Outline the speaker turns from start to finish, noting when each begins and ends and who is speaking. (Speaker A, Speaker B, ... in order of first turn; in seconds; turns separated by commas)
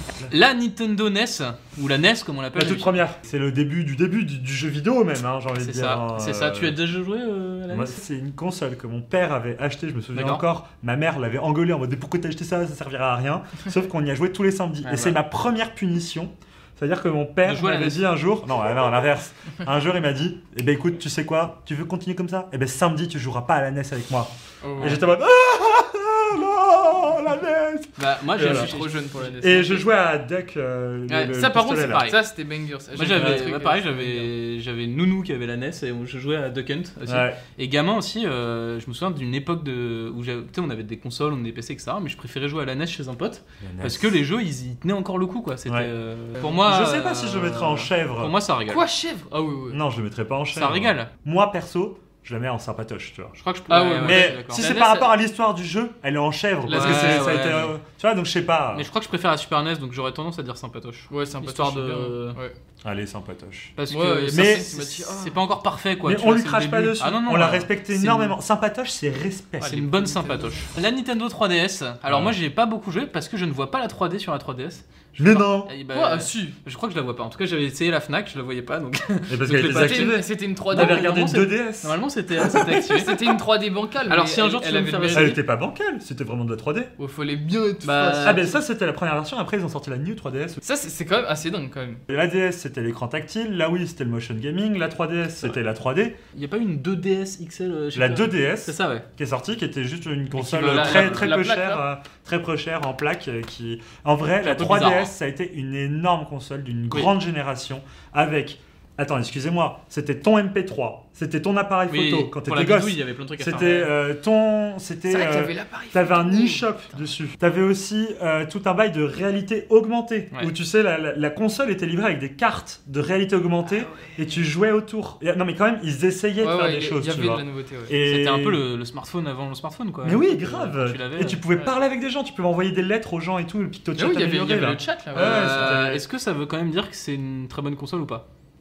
Speaker A: 0.3-3.0, Speaker B: 2.5-6.8, Speaker A: 5.6-8.0, Speaker B: 7.7-28.7, Speaker A: 10.1-10.4, Speaker A: 14.8-15.2, Speaker A: 17.4-18.1, Speaker C: 24.6-25.1, Speaker A: 28.0-29.8, Speaker C: 28.4-29.9, Speaker B: 29.4-32.1, Speaker C: 31.1-34.3, Speaker A: 31.9-32.1, Speaker A: 32.9-48.8, Speaker B: 37.1-37.4, Speaker B: 43.6-44.1, Speaker B: 45.7-45.9, Speaker B: 46.5-48.4, Speaker C: 48.7-49.8, Speaker B: 49.7-53.4, Speaker A: 50.5-51.1, Speaker A: 53.4-55.0, Speaker C: 53.7-55.1, Speaker B: 54.0-58.9, Speaker C: 56.7-57.4, Speaker A: 56.7-57.8, Speaker A: 58.7-62.4, Speaker C: 61.1-62.5, Speaker B: 62.8-63.8, Speaker A: 63.8-68.4, Speaker C: 63.9-65.4, Speaker B: 64.3-64.7, Speaker B: 66.0-69.9, Speaker A: 69.6-83.4, Speaker C: 69.9-70.7, Speaker B: 72.1-72.3, Speaker B: 75.2-75.8, Speaker C: 75.8-76.6, Speaker B: 79.3-82.7, Speaker C: 79.6-81.4, Speaker C: 82.8-85.4, Speaker A: 84.1-85.4, Speaker B: 85.1-86.9, Speaker C: 87.0-88.6, Speaker A: 87.8-88.5, Speaker B: 88.2-90.6, Speaker C: 90.6-92.0, Speaker B: 92.1-96.2, Speaker A: 96.3-99.1, Speaker B: 97.9-128.6, Speaker A: 100.4-101.4, Speaker C: 100.4-101.8, Speaker A: 104.4-105.1, Speaker A: 111.9-113.9, Speaker C: 115.0-117.1, Speaker C: 123.7-124.4, Speaker C: 126.4-127.9, Speaker A: 128.0-131.4, Speaker B: 130.0-136.0, Speaker C: 133.9-136.0, Speaker A: 135.1-138.3